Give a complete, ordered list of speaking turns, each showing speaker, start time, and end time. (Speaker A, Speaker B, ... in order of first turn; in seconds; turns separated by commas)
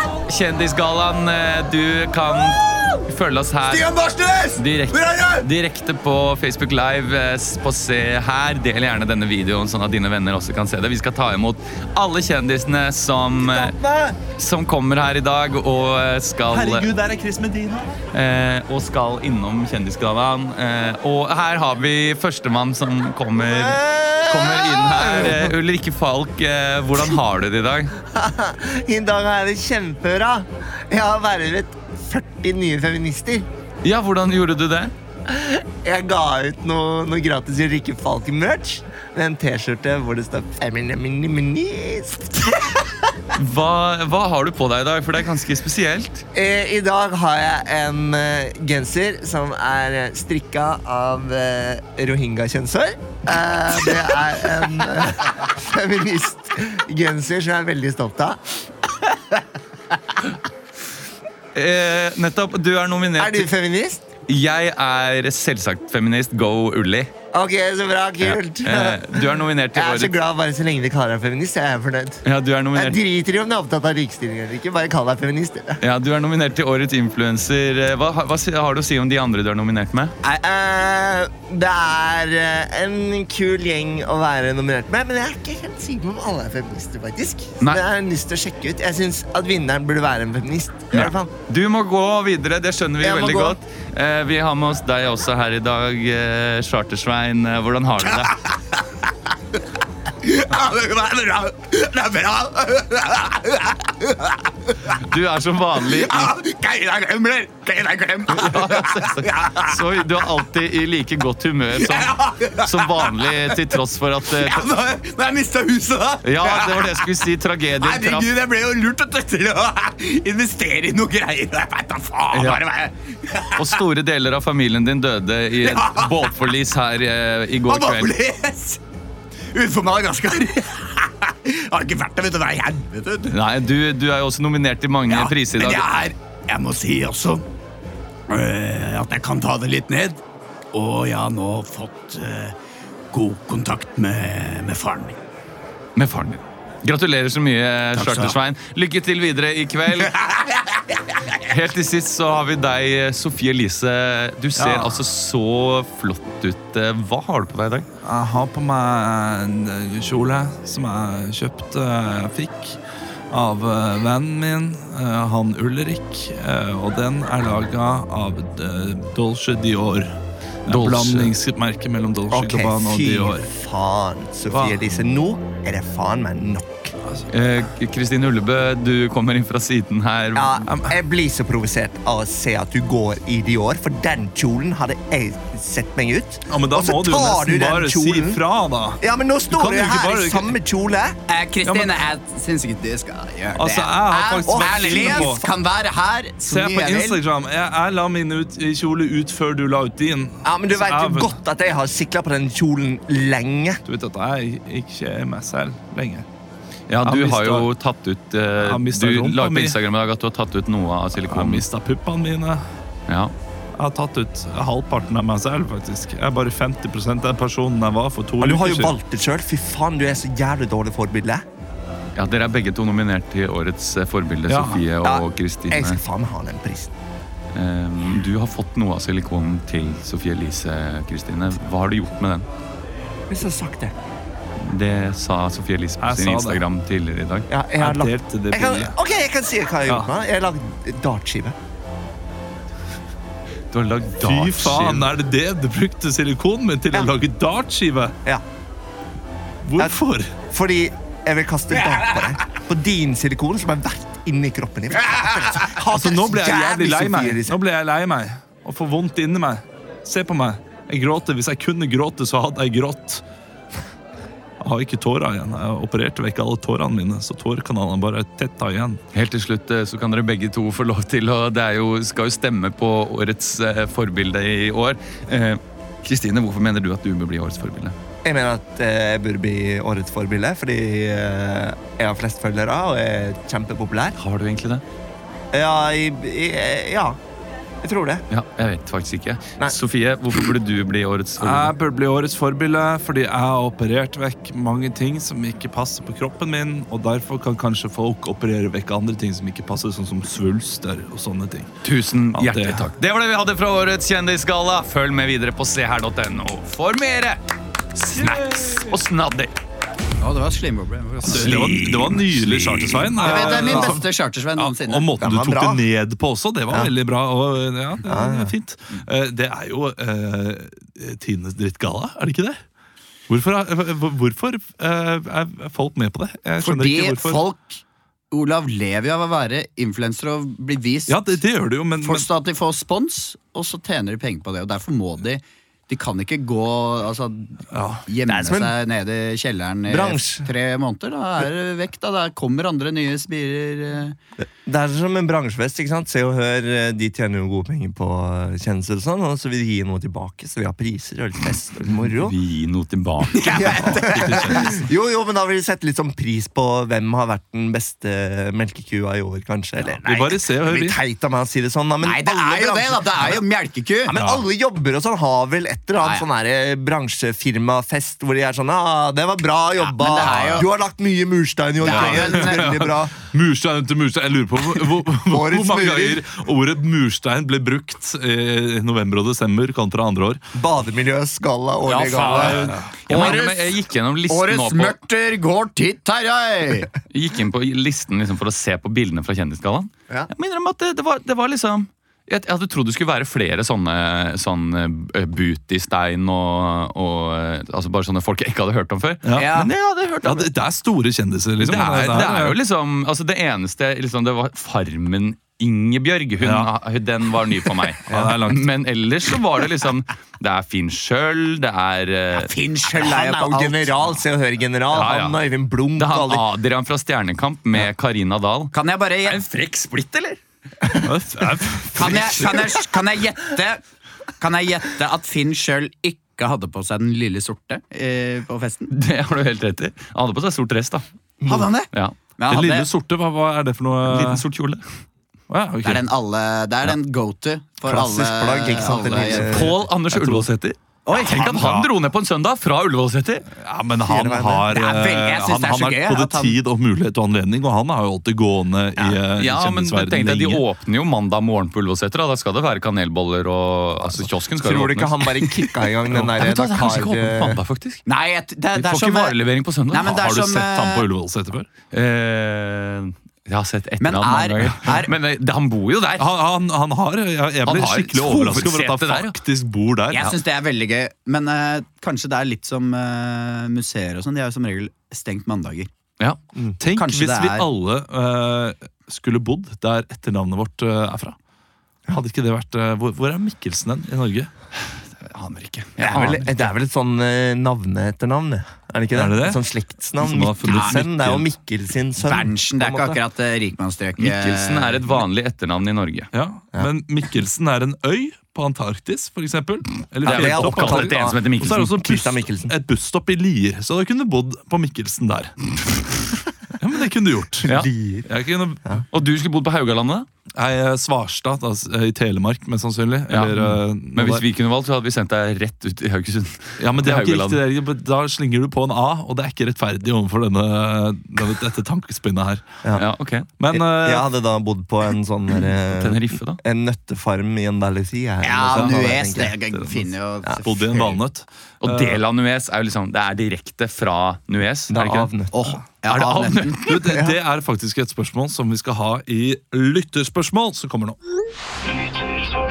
Speaker A: 0.3-3.9, Speaker B: 3.7-5.5, Speaker A: 4.5-16.9, Speaker C: 13.4-14.2, Speaker C: 16.5-17.9, Speaker A: 18.1-27.9, Speaker C: 23.4-25.5, Speaker C: 28.0-33.5, Speaker A: 33.8-34.9, Speaker C: 35.3-43.1, Speaker A: 43.3-46.2, Speaker C: 46.3-58.5, Speaker A: 61.5-63.5, Speaker C: 63.2-64.0, Speaker A: 64.3-67.1, Speaker C: 67.3-72.2, Speaker A: 68.2-70.2, Speaker A: 72.2-73.0, Speaker C: 72.7-75.8, Speaker A: 75.8-80.1, Speaker C: 80.2-91.3, Speaker A: 90.9-98.4, Speaker C: 93.0-93.6, Speaker B: 98.0-98.7, Speaker B: 100.2-104.4, Speaker A: 104.9-106.3, Speaker B: 105.8-109.8, Speaker A: 108.3-114.7, Speaker B: 111.8-113.7, Speaker B: 114.3-117.2, Speaker A: 116.2-118.3, Speaker B: 117.8-123.8, Speaker A: 122.3-122.6, Speaker A: 123.5-128.1, Speaker B: 125.6-126.3, Speaker B: 127.7-128.8, Speaker B: 129.5-133.3, Speaker A: 133.3-135.9, Speaker B: 135.1-137.4, Speaker B: 138.3-140.2, Speaker B: 140.7-142.6, Speaker B: 143.1-145.2, Speaker A: 145.9-150.2, Speaker B: 147.9-148.4, Speaker B: 150.1-150.6, Speaker A: 151.3-157.9, Speaker D: 154.6-155.0, Speaker D: 158.0-162.8, Speaker D: 163.3-173.5, Speaker A: 170.7-171.3, Speaker C: 172.3-176.9, Speaker A: 177.3-180.7, Speaker C: 180.3-188.4, Speaker D: 180.7-180.9, Speaker D: 186.5-190.5, Speaker C: 189.0-191.2, Speaker B: 191.3-197.2, Speaker D: 191.6-192.0, Speaker D: 193.6-195.4, Speaker C: 194.4-195.4, Speaker D: 196.5-201.3, Speaker C: 200.4-203.8, Speaker D: 203.8-206.2, Speaker A: 206.9-211.6, Speaker D: 207.0-207.7, Speaker D: 208.6-209.8, Speaker D: 211.2-212.7, Speaker A: 213.1-213.3, Speaker D: 213.8-218.9, Speaker C: 218.4-221.4, Speaker A: 222.2-226.0, Speaker D: 224.5-224.8, Speaker C: 225.0-226.9, Speaker A: 227.5-232.4, Speaker C: 233.3-233.9, Speaker A: 234.6-237.5, Speaker D: 236.0-236.6, Speaker C: 237.5-241.6, Speaker D: 237.8-238.9, Speaker A: 243.7-245.1, Speaker D: 244.2-248.2, Speaker D: 249.6-250.3, Speaker C: 250.5-257.6, Speaker D: 255.8-263.2, Speaker D: 264.6-269.0, Speaker A: 269.1-277.9, Speaker C: 278.2-284.2, Speaker A: 284.2-284.8, Speaker C: 285.5-287.2, Speaker C: 287.8-288.2, Speaker A: 288.3-291.7, Speaker D: 291.4-301.7, Speaker A: 301.8-307.4, Speaker D: 302.3-302.9, Speaker A: 307.9-309.5, Speaker D: 308.1-308.9, Speaker B: 310.2-312.3, Speaker D: 311.2-322.6, Speaker A: 311.4-311.8, Speaker B: 313.1-315.1, Speaker C: 313.4-314.0, Speaker C: 315.2-315.8, Speaker C: 318.0-318.5, Speaker D: 323.3-327.4, Speaker B: 326.6-331.4, Speaker D: 331.1-332.3, Speaker B: 332.0-344.2, Speaker D: 337.7-338.0, Speaker C: 338.3-338.8, Speaker C: 339.9-340.5, Speaker C: 344.4-352.4, Speaker A: 352.1-354.0, Speaker B: 353.3-354.7, Speaker C: 353.5-363.4, Speaker D: 354.0-354.8, Speaker D: 360.0-361.0, Speaker B: 362.0-364.1, Speaker C: 364.1-373.2, Speaker D: 364.1-364.4, Speaker B: 366.0-366.2, Speaker B: 369.9-370.7, Speaker B: 371.8-372.7, Speaker D: 371.9-380.4, Speaker C: 375.2-376.2, Speaker C: 380.5-382.7, Speaker A: 381.9-385.0, Speaker B: 382.1-386.9, Speaker D: 382.3-383.4, Speaker A: 387.1-400.5, Speaker D: 399.2-399.7, Speaker B: 399.4-399.7, Speaker D: 400.2-402.6, Speaker A: 401.6-412.5, Speaker D: 406.4-406.7, Speaker D: 408.1-408.6, Speaker C: 408.1-408.4, Speaker B: 412.3-413.9, Speaker C: 412.9-416.5, Speaker A: 414.9-415.4, Speaker A: 416.0-418.7, Speaker B: 418.7-419.4, Speaker A: 419.2-420.4, Speaker D: 421.0-422.6, Speaker B: 421.9-423.8, Speaker B: 424.4-428.9, Speaker A: 428.9-431.0, Speaker C: 431.4-431.7, Speaker B: 431.4-432.9, Speaker D: 432.5-434.4, Speaker A: 434.0-434.9, Speaker D: 435.5-436.0, Speaker B: 435.8-439.5, Speaker C: 437.8-439.8, Speaker A: 439.4-443.5, Speaker D: 439.5-440.5, Speaker B: 441.1-441.5, Speaker D: 441.3-441.9, Speaker D: 443.5-450.6, Speaker C: 444.0-444.7, Speaker B: 444.7-446.6, Speaker A: 449.4-458.0, Speaker C: 454.6-457.6, Speaker B: 458.1-459.4, Speaker A: 458.8-460.2, Speaker B: 459.9-461.1, Speaker D: 460.0-461.7, Speaker A: 461.9-466.3, Speaker B: 464.0-465.1, Speaker D: 466.2-470.4, Speaker A: 467.6-469.4, Speaker B: 470.1-475.9, Speaker D: 476.8-481.4, Speaker B: 476.9-477.7, Speaker D: 482.1-484.5, Speaker A: 484.8-486.6, Speaker C: 486.1-493.2, Speaker D: 489.1-489.6, Speaker D: 490.2-491.5, Speaker B: 492.2-495.1, Speaker A: 494.2-496.3, Speaker D: 496.3-507.7, Speaker A: 500.2-502.0, Speaker C: 500.2-502.8, Speaker C: 507.6-508.3, Speaker D: 508.2-509.0, Speaker A: 509.1-510.3, Speaker D: 510.5-514.4, Speaker A: 513.3-517.6, Speaker D: 516.8-522.7, Speaker A: 522.9-523.5, Speaker D: 523.6-524.3, Speaker C: 523.7-529.6, Speaker A: 525.9-526.6, Speaker B: 528.4-530.9, Speaker D: 528.7-530.0, Speaker C: 530.4-531.2, Speaker D: 530.6-532.2, Speaker A: 531.8-535.3, Speaker C: 534.9-535.8, Speaker B: 535.5-536.8, Speaker A: 536.1-536.9, Speaker D: 536.8-541.2, Speaker C: 536.9-537.4